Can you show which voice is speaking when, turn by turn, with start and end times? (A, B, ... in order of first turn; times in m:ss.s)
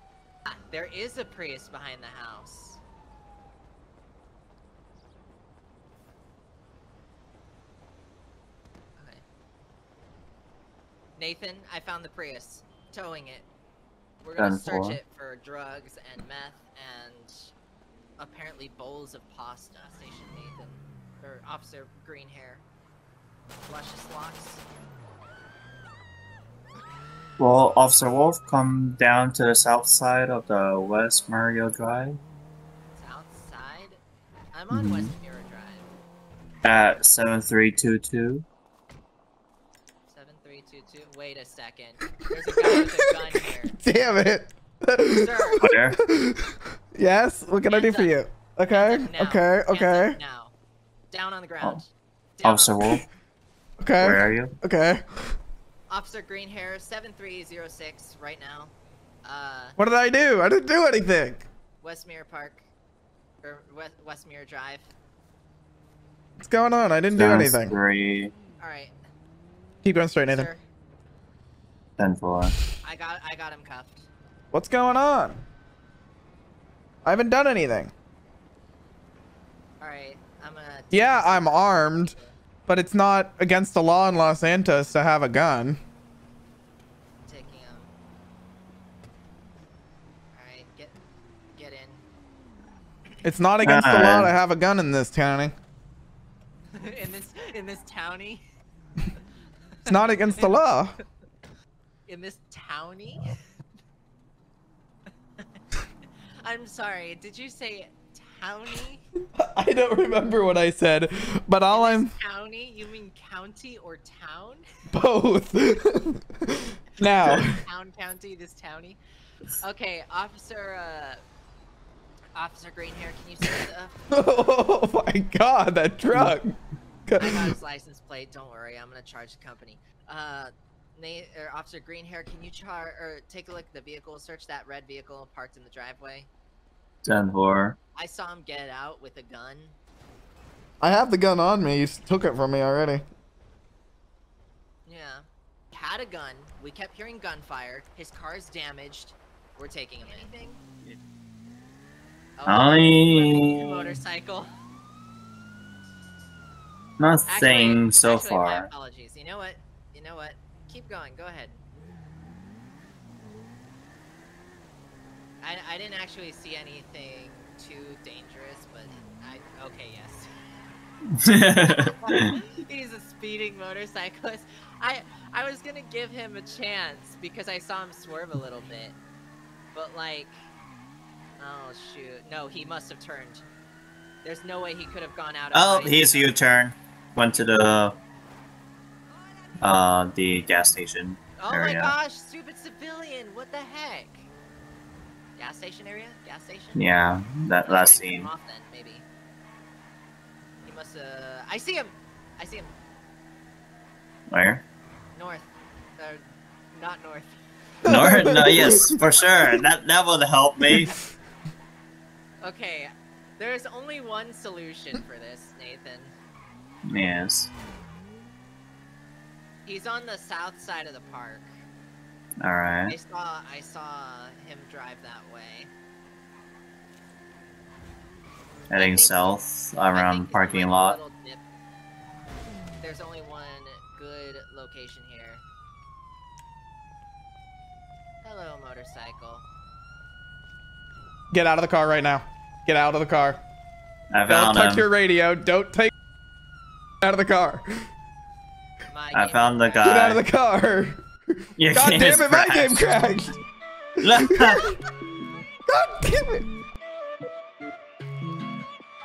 0:00.5-0:02.8 A
0:09.0-0:09.2 A
0:11.2-0:13.5 A
0:14.2-0:17.5 A
0:14.4-0:15.0 B
0:18.2-0:22.6 A
0:23.7-0:24.6 A
0:27.4-0:32.2 B
0:33.0-0:34.0 A
0:34.5-0:35.9 A
0:34.7-0:35.1 B
0:36.6-0:38.4 B
0:40.1-0:43.8 A
0:43.7-0:50.2 C
0:45.1-0:45.6 A
0:45.6-0:46.0 B
0:47.7-0:48.1 A
0:48.7-0:50.6 A
0:51.1-0:53.0 A
0:52.4-0:53.1 B
0:53.8-0:55.4 C
0:54.0-0:54.6 B
0:55.9-0:58.7 A
0:59.2-0:59.8 A
0:59.8-1:01.5 C
1:01.8-1:02.6 A
1:03.4-1:04.9 A
1:06.4-1:07.7 C
1:07.1-1:08.3 B
1:08.6-1:08.9 A
1:09.8-1:10.5 C
1:10.3-1:10.6 A
1:12.0-1:12.6 B
1:12.8-1:14.1 A
1:14.5-1:15.4 C
1:17.0-1:17.9 C
1:19.8-1:22.4 A
1:20.9-1:22.1 C
1:22.7-1:25.8 C
1:27.2-1:27.9 A
1:30.3-1:31.0 A
1:31.6-1:32.0 A
1:33.2-1:35.5 C
1:33.6-1:34.4 B
1:36.7-1:38.4 A
1:39.8-1:40.6 A
1:39.9-1:40.9 C
1:42.1-1:43.3 A
1:46.4-1:49.0 A
1:49.4-1:52.1 C
1:51.7-1:54.6 A
1:54.9-1:57.6 C
1:57.3-1:59.0 A
1:59.6-2:01.2 A
2:02.4-2:04.1 A
2:04.1-2:06.6 C
2:07.1-2:07.5 C
2:07.2-2:16.3 A
2:17.0-2:17.8 B
2:18.0-2:19.8 A
2:20.8-2:23.0 C
2:24.9-2:30.6 A
2:32.4-2:34.5 A
2:32.5-2:34.0 B
2:37.0-2:38.7 B
2:37.3-2:41.6 A
2:45.4-2:50.3 A
2:51.2-2:52.3 B
2:51.6-2:59.0 A
2:59.7-3:00.5 A
3:01.4-3:03.5 A
3:04.2-3:06.4 A
3:05.5-3:08.0 B
3:09.6-3:12.0 B
3:11.4-3:14.3 A
3:15.4-3:16.9 A
3:16.8-3:18.3 B
3:17.6-3:19.1 A
3:20.6-3:22.7 A
3:24.3-3:24.6 B
3:25.2-3:27.4 A
3:27.8-3:29.0 C
3:27.8-3:30.9 B
3:32.4-3:36.1 A
3:36.9-3:37.5 B
3:39.6-3:41.5 A
3:42.4-3:43.0 B
3:42.9-3:45.7 A
3:48.7-3:49.4 A
3:48.7-3:51.0 B
3:49.9-3:51.4 A
3:52.8-3:55.4 A
3:58.2-3:59.4 A
4:01.3-4:03.4 C
4:04.1-4:04.9 B
4:04.3-4:05.9 C
4:07.0-4:07.7 C
4:08.9-4:10.1 A
4:09.1-4:10.2 B
4:09.8-4:11.0 C
4:11.6-4:13.1 B
4:11.7-4:13.4 C
4:14.0-4:14.7 B
4:14.0-4:14.7 C
4:15.7-4:16.5 C